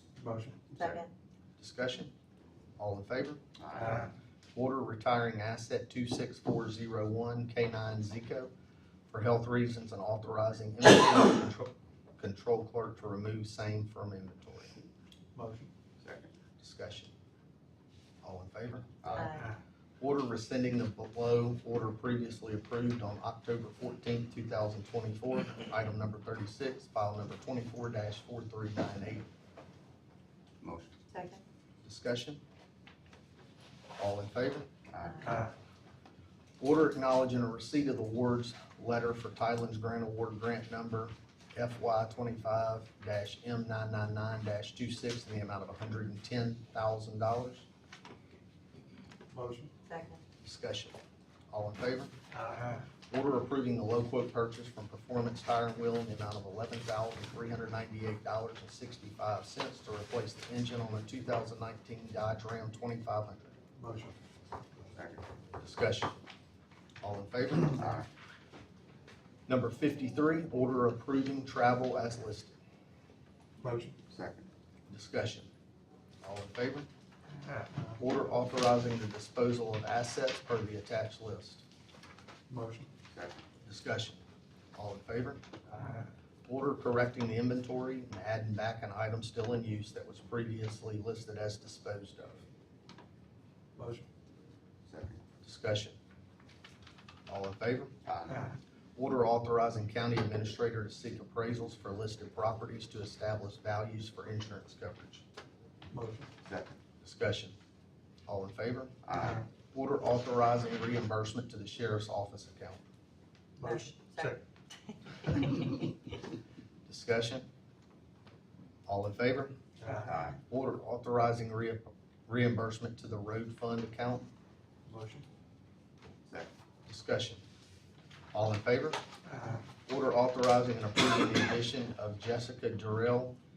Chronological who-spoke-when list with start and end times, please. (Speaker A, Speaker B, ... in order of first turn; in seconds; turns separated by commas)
Speaker A: 0.2-0.6, Speaker B: 0.7-1.0, Speaker C: 0.8-1.1, Speaker D: 1.6-2.1, Speaker D: 2.8-3.4, Speaker B: 3.6-4.1, Speaker D: 4.5-8.5, Speaker D: 9.1-14.7, Speaker A: 15.4-15.7, Speaker B: 16.0-16.3, Speaker D: 16.6-17.1, Speaker D: 18.2-19.4, Speaker B: 19.0-19.4, Speaker C: 19.1-19.5, Speaker D: 20.0-29.3, Speaker B: 30.6-30.9, Speaker C: 31.1-31.4, Speaker D: 31.8-32.4, Speaker D: 34.0-34.7, Speaker B: 34.9-35.5, Speaker D: 36.6-47.7, Speaker A: 49.3-49.7, Speaker C: 49.9-50.2, Speaker D: 50.4-51.0, Speaker D: 51.5-52.2, Speaker A: 52.4-52.8, Speaker D: 53.1-63.5, Speaker A: 63.8-64.2, Speaker B: 65.0-65.2, Speaker D: 65.6-66.2, Speaker D: 67.0-68.0, Speaker D: 69.5-72.5, Speaker A: 73.6-74.0, Speaker B: 74.1-74.5, Speaker D: 74.9-75.5, Speaker D: 76.2-76.9, Speaker D: 78.0-81.7, Speaker A: 82.5-82.9, Speaker B: 83.1-83.4, Speaker D: 83.7-84.2, Speaker D: 84.8-85.4, Speaker D: 86.5-92.5, Speaker A: 93.8-94.1, Speaker B: 94.9-95.2, Speaker D: 95.4-96.0, Speaker D: 97.3-97.9, Speaker B: 98.1-98.4, Speaker D: 99.0-105.2, Speaker A: 105.9-106.3, Speaker B: 106.5-106.8, Speaker D: 107.0-107.6, Speaker D: 108.3-109.0, Speaker B: 109.0-109.4, Speaker D: 109.7-112.8, Speaker A: 113.6-114.4, Speaker C: 113.6-114.4, Speaker C: 115.1-115.9, Speaker D: 116.9-117.5, Speaker D: 118.9-119.6, Speaker A: 119.8-120.1, Speaker B: 119.9-120.4, Speaker D: 120.5-124.3, Speaker A: 124.9-125.3, Speaker D: 126.9-127.4, Speaker D: 128.3-129.0, Speaker D: 129.9-133.4